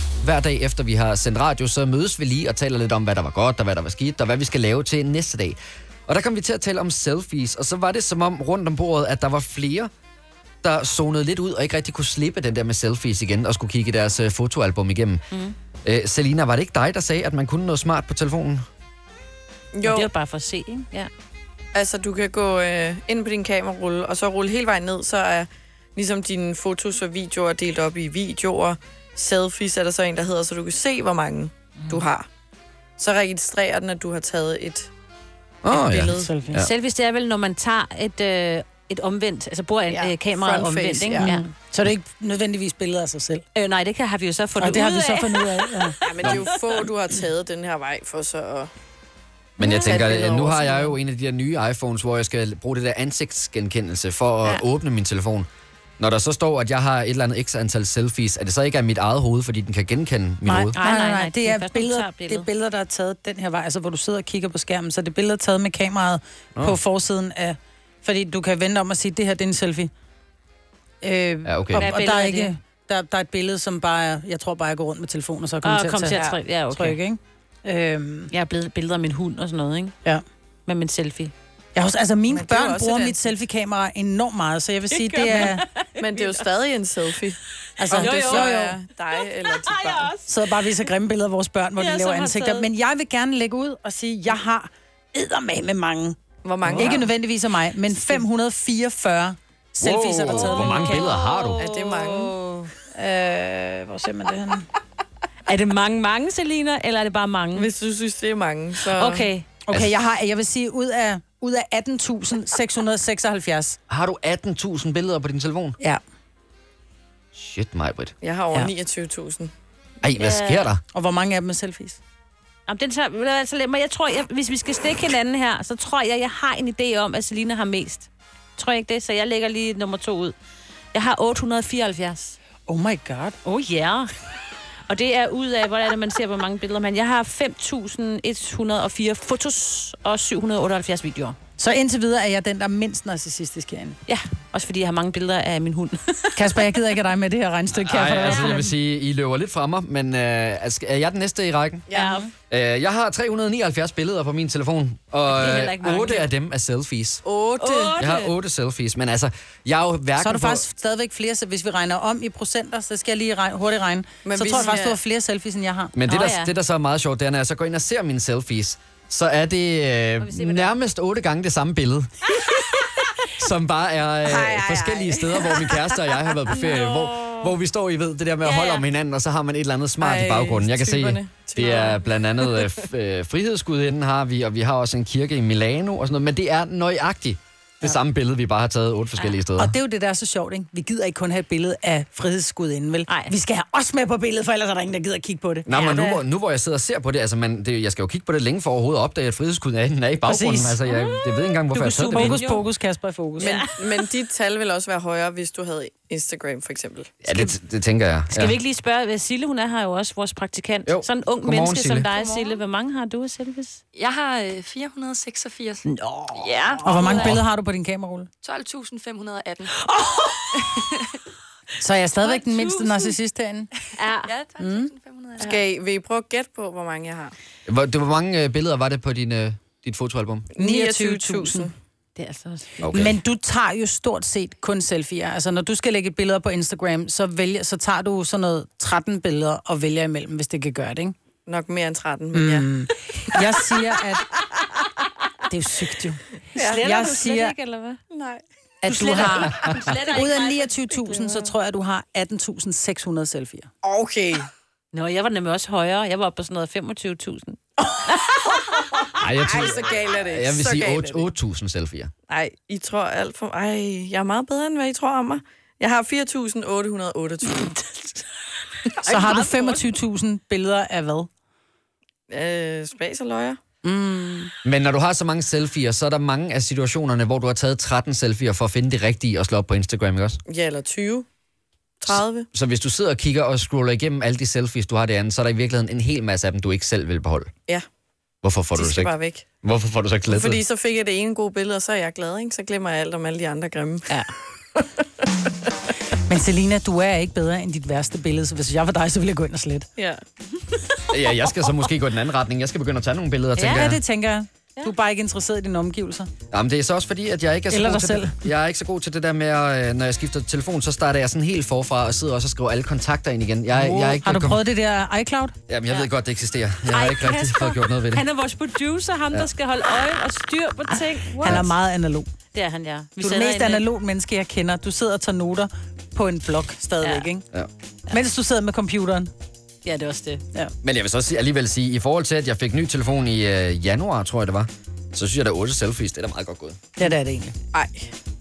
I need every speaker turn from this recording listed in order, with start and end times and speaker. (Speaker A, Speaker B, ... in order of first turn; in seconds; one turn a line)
Speaker A: 0.2-9.9
Speaker A: 10.6-15.2
Speaker B: 15.3-15.6
Speaker A: 15.8-18.6
Speaker C: 19.7-20.1
Speaker B: 19.8-21.1
Speaker C: 21.7-32.3
Speaker C: 33.0-34.9
Speaker A: 35.6-36.7
Speaker C: 35.7-36.3
Speaker D: 36.2-36.6
Speaker B: 36.5-41.5
Speaker C: 39.9-41.4
Speaker D: 41.3-43.5
Speaker B: 43.5-46.8
Speaker D: 44.6-46.0
Speaker C: 46.0-48.7
Speaker A: 46.2-46.5
Speaker A: 49.6-55.5
Speaker C: 49.7-50.9
Speaker A: 56.0-60.8
Speaker D: 60.5-69.9
Speaker B: 60.7-62.5
Speaker D: 71.0-78.3
Speaker A: 71.5-71.9
Speaker B: 71.7-72.5
Speaker B: 75.6-77.0
Speaker B: 78.3-80.0
Speaker B: 80.7-81.3
Speaker D: 81.8-85.7
Speaker C: 82.3-83.3
Speaker B: 84.9-86.4
Speaker C: 85.3-90.1
Speaker B: 87.8-90.9
Speaker D: 87.8-88.7
Speaker D: 90.2-96.2
Speaker B: 91.8-92.7
Speaker C: 96.4-97.1
Speaker B: 96.7-97.1
Speaker D: 96.8-101.1
Speaker A: 99.8-101.6
Speaker B: 100.3-102.7
Speaker C: 101.6-102.4
Speaker D: 102.9-104.7
Speaker B: 105.5-107.7
Speaker C: 107.5-109.3
Speaker B: 108.9-109.5
Speaker D: 109.7-113.8
Speaker A: 113.9-115.8
Speaker A: 117.3-118.1
Speaker C: 118.2-119.5
Speaker A: 120.0-120.8
Speaker B: 120.2-120.7
Speaker D: 120.9-122.0
Speaker B: 122.7-130.3
Speaker B: 130.9-132.4
Speaker D: 132.7-133.4
Speaker B: 133.4-134.1
Speaker B: 134.9-141.4
Speaker D: 141.6-144.0
Speaker B: 144.1-146.7
Speaker D: 146.4-148.7
Speaker A: 147.7-151.9
Speaker B: 148.1-148.7
Speaker C: 151.9-152.2
Speaker B: 151.9-152.3
Speaker A: 152.5-157.2
Speaker B: 155.3-156.3
Speaker C: 157.2-158.0
Speaker B: 157.6-158.3
Speaker A: 158.0-160.7
Speaker D: 160.2-165.9
Speaker C: 164.2-165.0
Speaker A: 165.9-172.1
Speaker B: 166.1-166.5
Speaker B: 170.2-170.8
Speaker A: 173.3-189.8
Speaker C: 174.2-175.9
Speaker C: 176.5-177.5
Speaker B: 178.4-178.9
Speaker C: 180.0-182.7
Speaker D: 189.6-195.7
Speaker B: 193.1-193.3
Speaker A: 195.7-202.5
Speaker B: 195.7-196.2
Speaker D: 200.2-200.8
Speaker B: 200.8-202.7
Speaker D: 201.7-203.6
Speaker B: 203.4-203.8
Speaker C: 203.4-207.1
Speaker A: 207.2-208.6
Speaker B: 207.3-207.6
Speaker B: 208.3-213.8
Speaker A: 210.9-212.1
Speaker E: 213.9-215.8
Speaker B: 215.9-217.3
Speaker E: 216.5-217.3
Speaker D: 216.8-218.3
Speaker E: 218.4-219.7
Speaker B: 219.8-220.9
Speaker D: 221.8-223.7
Speaker B: 222.2-223.2
Speaker B: 224.0-224.4
Speaker E: 224.3-225.5
Speaker D: 224.6-224.9
Speaker C: 225.4-227.3
Speaker A: 227.7-230.5
Speaker C: 230.5-231.7
Speaker D: 230.6-231.7
Speaker B: 232.2-232.8
Speaker A: 232.8-233.2
Speaker D: 232.9-241.2
Speaker C: 241.5-243.8
Speaker D: 242.3-244.3
Speaker D: 245.5-246.2
Speaker C: 246.6-246.9
Speaker B: 246.6-248.0
Speaker D: 246.7-247.6
Speaker C: 248.1-248.4
Speaker B: 248.8-250.9
Speaker D: 248.8-253.7
Speaker C: 249.1-249.3
Speaker C: 251.0-251.5
Speaker C: 253.8-254.5
Speaker B: 254.9-258.4
Speaker C: 258.1-261.3
Speaker A: 259.2-262.1
Speaker C: 262.3-268.2
Speaker C: 268.9-269.9
Speaker D: 269.1-271.3
Speaker C: 272.3-273.6
Speaker D: 273.8-274.5
Speaker A: 274.6-280.4
Speaker C: 280.5-281.3
Speaker C: 282.0-282.5
Speaker A: 282.1-287.5
Speaker A: 288.4-290.6
Speaker C: 288.7-289.4
Speaker C: 290.3-294.2
Speaker D: 296.3-299.9
Speaker A: 301.1-304.0
Speaker B: 303.6-303.9
Speaker D: 303.7-306.3
Speaker A: 306.5-314.6
Speaker D: 307.7-308.4
Speaker D: 313.7-315.6
Speaker A: 315.7-318.3
Speaker B: 316.9-321.8
Speaker A: 321.4-321.7
Speaker D: 321.4-322.3
Speaker B: 322.5-323.9
Speaker D: 323.2-327.5
Speaker B: 327.0-327.3
Speaker D: 328.1-329.3
Speaker B: 329.8-330.4
Speaker A: 330.8-336.8
Speaker D: 337.0-337.6
Speaker C: 337.7-338.1